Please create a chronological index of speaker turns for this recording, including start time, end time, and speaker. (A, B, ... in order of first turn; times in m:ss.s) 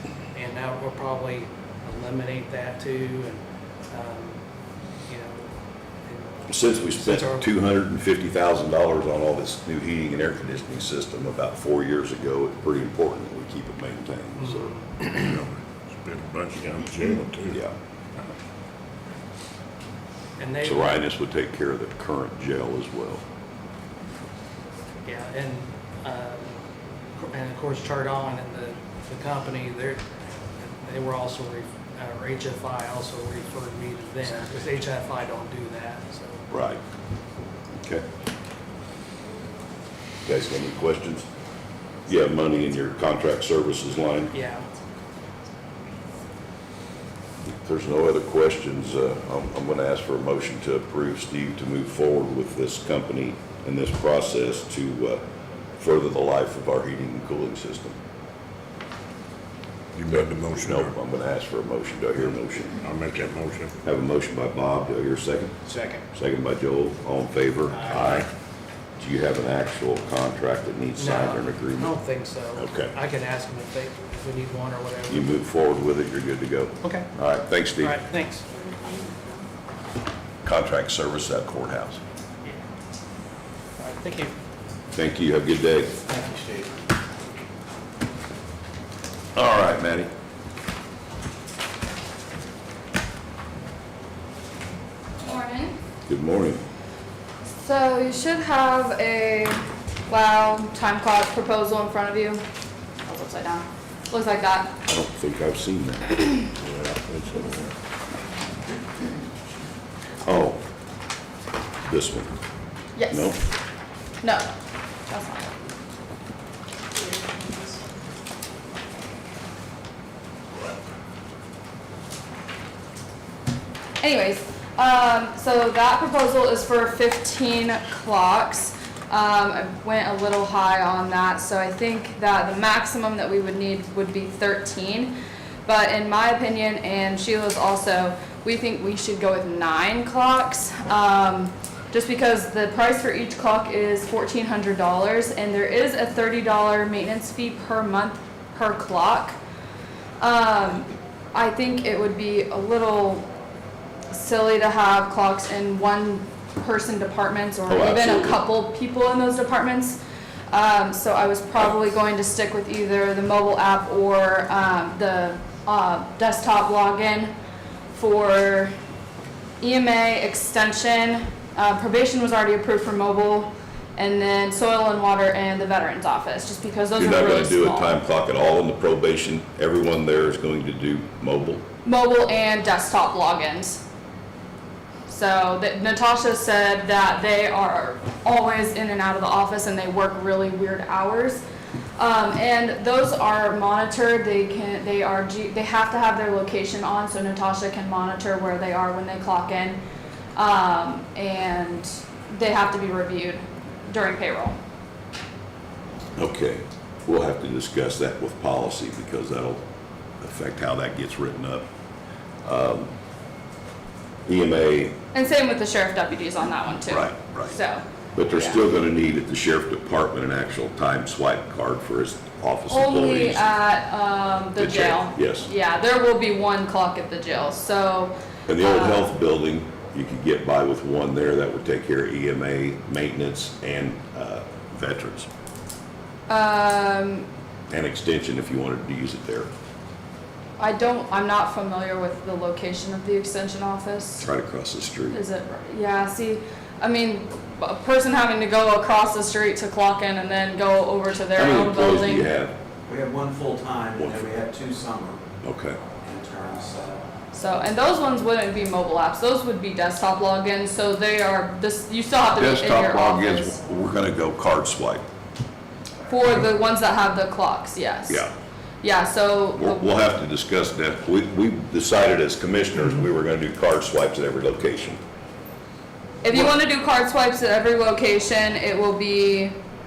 0:00.3-0:04.4 A
0:05.1-0:05.5 A
0:06.0-0:07.5 A
0:06.5-0:14.7 B
0:14.4-0:15.3 A
0:15.2-0:17.6 C
0:20.4-0:20.9 A
0:20.6-0:23.2 B
0:25.0-0:26.5 A
0:27.2-0:30.0 A
0:30.6-0:36.4 A
0:36.5-0:36.8 B
0:40.2-0:41.2 B
0:42.1-0:44.3 B
0:44.3-0:44.7 A
0:47.6-0:55.2 B
0:55.8-0:58.0 B
1:00.0-1:00.9 C
1:00.1-1:02.8 B
1:02.8-1:03.7 C
1:03.8-1:05.5 B
1:06.1-1:08.3 B
1:08.0-1:08.2 C
1:09.0-1:11.9 B
1:11.0-1:15.4 A
1:12.6-1:12.9 B
1:15.1-1:18.0 B
1:17.8-1:18.4 A
1:20.4-1:22.0 B
1:23.8-1:24.3 A
1:24.9-1:25.9 B
1:26.1-1:26.7 D
1:29.3-1:30.1 B
1:35.2-1:35.8 E
1:36.1-1:36.6 B
1:37.6-1:42.4 E
1:43.0-1:44.8 E
1:44.8-1:46.1 B
1:46.6-1:47.7 C
1:50.2-1:50.6 B
1:51.8-1:52.3 B
1:53.0-1:53.4 E
1:53.1-1:53.4 B
1:54.2-1:54.5 E
1:55.1-1:55.5 E
2:04.0-2:15.1 E
2:15.7-2:29.4 E
2:30.2-2:33.3 E
2:34.1-2:40.0 E
2:37.7-2:38.4 B
2:40.5-2:47.3 E
2:47.9-2:48.7 E
2:49.6-2:58.0 E
2:57.0-3:01.6 B
3:01.8-3:03.8 E
3:05.1-3:11.4 E
3:12.0-3:19.8 E
3:20.4-3:24.6 E
3:26.2-3:29.6 B
3:30.2-3:31.6 B
3:32.4-3:32.9 B
3:34.3-3:35.0 B
3:35.1-3:37.8 E
3:36.9-3:37.6 B
3:38.1-3:43.4 B
3:38.3-3:38.6 E
3:42.7-3:49.1 E
3:44.6-3:45.5 B
3:48.5-3:55.3 B
3:56.3-3:57.3 E
3:57.7-3:59.5 B
4:00.6-4:04.3 E
4:04.2-4:05.2 B
4:05.1-4:12.3 E
4:11.3-4:12.5 B
4:12.9-4:15.2 D
4:14.0-4:14.2 B
4:15.4-4:15.8 B
4:16.0-4:17.0 D
4:17.3-4:23.6 E
4:22.3-4:25.0 B
4:26.1-4:28.2 E
4:28.8-4:29.8 E
4:29.6-4:35.0 B
4:36.2-4:39.5 E